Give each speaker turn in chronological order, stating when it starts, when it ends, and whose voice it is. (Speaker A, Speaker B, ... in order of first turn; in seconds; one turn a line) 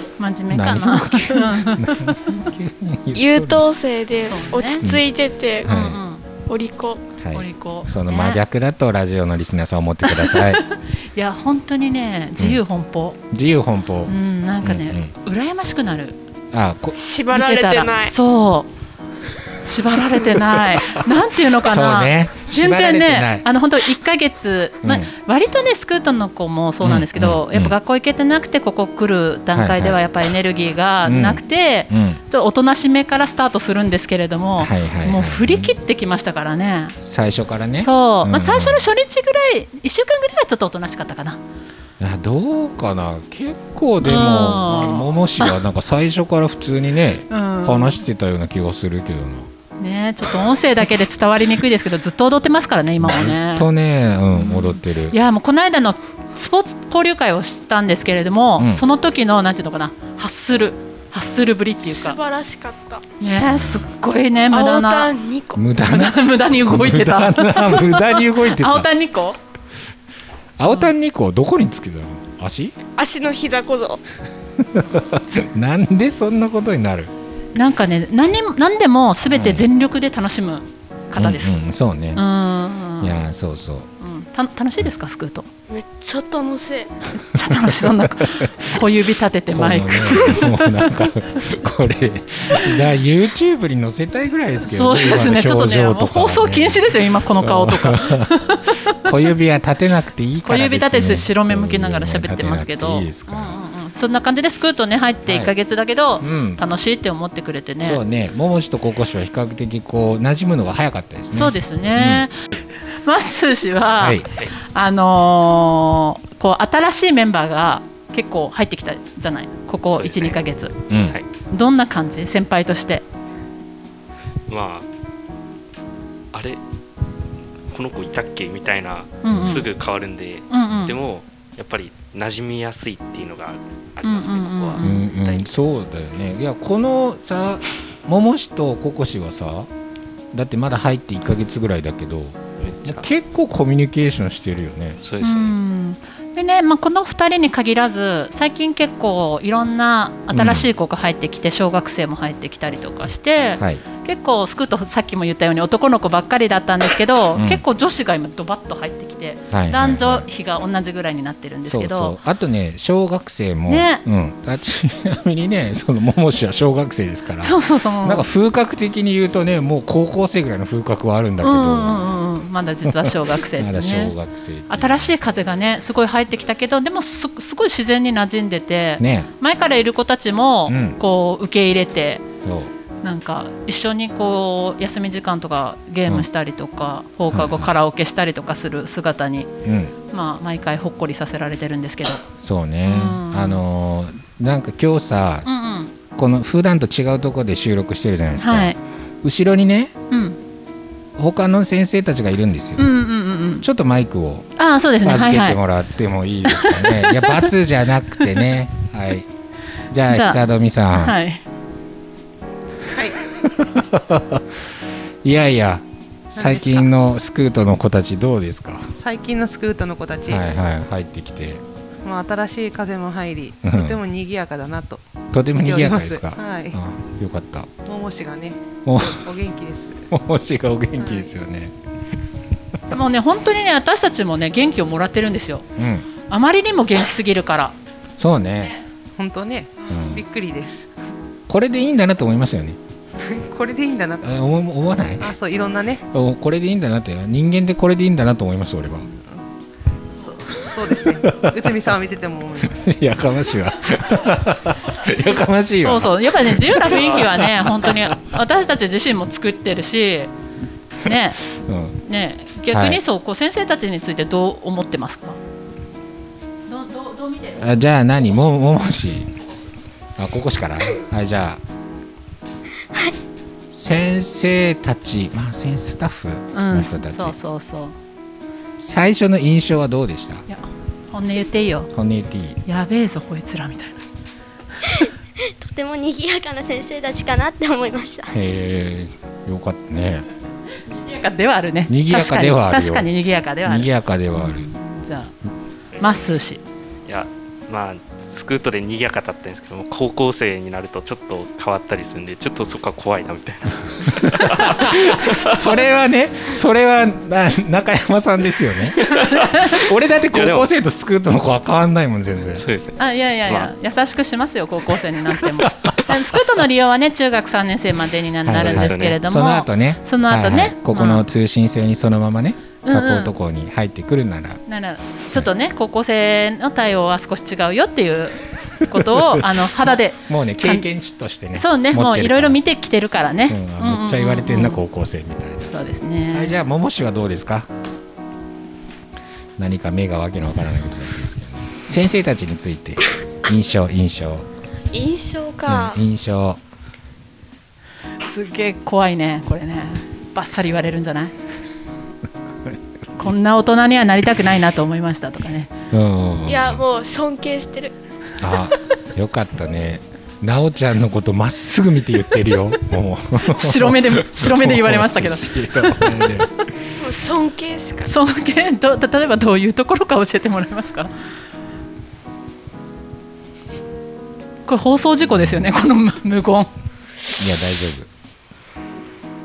Speaker A: 0.2-2.5
Speaker B: 0.5-3.6
Speaker C: 3.1-5.7
Speaker A: 4.2-4.8
Speaker B: 5.6-6.0
Speaker A: 5.6-6.3
Speaker C: 6.5-7.0
Speaker B: 7.2-10.6
Speaker A: 7.3-8.4
Speaker A: 10.1-13.2
Speaker B: 13.3-15.1
Speaker A: 14.1-16.2
Speaker B: 16.5-17.0
Speaker C: 17.0-18.1
Speaker A: 17.3-18.7
Speaker A: 19.6-37.0
Speaker B: 20.3-23.5
Speaker B: 24.8-25.1
Speaker B: 26.8-27.8
Speaker B: 29.5-30.0
Speaker B: 31.1-32.2
Speaker B: 34.6-35.7
Speaker B: 37.0-38.9
Speaker A: 37.8-41.4
Speaker B: 42.0-49.5
Speaker A: 44.0-45.6
Speaker A: 47.3-48.0
Speaker A: 49.8-53.7
Speaker B: 53.0-55.2
Speaker A: 54.3-62.2
Speaker B: 58.6-58.8
Speaker C: 61.8-63.0
Speaker A: 63.2-65.1
Speaker B: 63.4-63.9
Speaker C: 64.5-65.6
Speaker B: 65.5-68.9
Speaker A: 65.8-69.4
Speaker B: 70.6-72.7
Speaker A: 70.7-70.9
Speaker C: 73.0-74.0
Speaker B: 74.6-77.1
Speaker A: 77.5-81.6
Speaker B: 79.3-79.7
Speaker B: 81.2-82.2
Speaker A: 82.2-83.2
Speaker B: 83.0-83.9
Speaker A: 84.0-85.5
Speaker C: 85.7-86.9
Speaker A: 87.3-90.8
Speaker B: 87.5-88.5
Speaker B: 89.5-98.3
Speaker A: 94.7-99.0
Speaker B: 98.9-103.6
Speaker A: 100.5-108.0
Speaker B: 105.3-105.5
Speaker B: 106.2-106.6
Speaker B: 107.8-112.3
Speaker A: 111.3-112.3
Speaker A: 113.0-120.7
Speaker B: 114.0-114.3
Speaker D: 119.9-120.4
Speaker B: 120.9-121.2
Speaker A: 121.5-123.0
Speaker D: 124.5-124.9
Speaker D: 126.3-126.6
Speaker D: 127.7-135.5
Speaker A: 129.2-129.7
Speaker A: 130.5-130.9
Speaker A: 134.0-135.0
Speaker B: 134.8-139.7
Speaker B: 140.3-145.0
Speaker D: 142.6-143.1
Speaker D: 145.0-145.6
Speaker A: 145.2-162.2
Speaker B: 150.3-150.7
Speaker B: 157.3-157.6
Speaker B: 159.5-160.2
Speaker B: 161.7-172.1
Speaker A: 163.7-164.0
Speaker A: 167.4-168.3
Speaker A: 171.4-174.2
Speaker B: 172.9-175.2
Speaker A: 174.7-182.2
Speaker B: 179.0-179.3
Speaker B: 180.7-181.0
Speaker B: 182.4-182.7
Speaker A: 183.0-189.5
Speaker B: 187.3-187.7
Speaker B: 189.6-189.9
Speaker A: 190.1-192.2
Speaker B: 192.4-195.5
Speaker A: 192.9-193.6
Speaker A: 195.4-195.9
Speaker B: 196.2-199.9
Speaker A: 198.4-198.8
Speaker A: 200.1-200.4
Speaker B: 201.2-202.9
Speaker A: 202.8-203.7
Speaker B: 203.6-204.5
Speaker A: 204.6-205.6
Speaker B: 205.0-209.3
Speaker A: 206.5-207.5
Speaker B: 209.9-211.2
Speaker A: 210.1-211.4
Speaker E: 212.9-213.2
Speaker B: 213.3-214.5
Speaker B: 215.2-218.9
Speaker E: 216.4-216.9
Speaker E: 219.0-220.4
Speaker B: 220.3-221.6
Speaker E: 222.0-225.0
Speaker B: 223.6-224.0
Speaker B: 225.3-227.7
Speaker E: 225.6-226.8
Speaker E: 227.9-230.0
Speaker B: 228.9-229.3
Speaker B: 230.1-231.7
Speaker A: 232.9-235.7
Speaker B: 235.8-236.1
Speaker A: 236.3-237.7
Speaker B: 238.2-238.8
Speaker E: 239.2-240.9
Speaker B: 239.9-240.2
Speaker B: 241.5-242.8
Speaker E: 243.2-244.3
Speaker B: 244.2-245.3
Speaker E: 245.2-246.0
Speaker B: 246.1-249.1
Speaker E: 250.2-252.9
Speaker B: 250.7-251.8
Speaker B: 252.7-258.2
Speaker A: 255.8-260.3
Speaker A: 261.0-261.4
Speaker B: 261.6-262.0
Speaker A: 262.0-265.4
Speaker B: 262.7-263.0
Speaker A: 266.7-267.6
Speaker B: 267.6-269.3
Speaker B: 270.2-271.6
Speaker B: 273.7-277.4
Speaker A: 276.5-278.0
Speaker B: 278.8-280.4
Speaker A: 280.5-281.9
Speaker B: 281.9-282.6
Speaker A: 282.7-284.0
Speaker F: 285.6-288.4
Speaker B: 288.3-290.3
Speaker A: 290.9-295.3
Speaker B: 291.9-293.1
Speaker B: 293.6-294.7
Speaker A: 296.0-296.6
Speaker D: 297.1-305.7
Speaker B: 304.2-312.6
Speaker D: 309.0-309.8
Speaker D: 310.3-310.7
Speaker D: 312.5-313.7
Speaker A: 313.0-321.2
Speaker B: 318.5-324.6
Speaker D: 318.5-319.2
Speaker A: 322.9-323.3
Speaker A: 324.7-330.9
Speaker B: 328.9-329.6
Speaker B: 330.2-332.6
Speaker A: 331.6-334.8
Speaker B: 333.5-335.7
Speaker A: 335.7-336.6
Speaker B: 336.3-337.7
Speaker B: 339.6-344.5
Speaker C: 344.9-346.0
Speaker B: 345.6-346.6
Speaker A: 348.2-351.3
Speaker A: 353.2-355.7
Speaker B: 355.9-356.8
Speaker C: 356.5-357.9
Speaker B: 358.4-366.5
Speaker A: 363.4-366.1
Speaker C: 367.0-368.1
Speaker A: 368.1-371.1
Speaker A: 374.7-376.7
Speaker B: 375.3-375.7
Speaker B: 377.4-378.1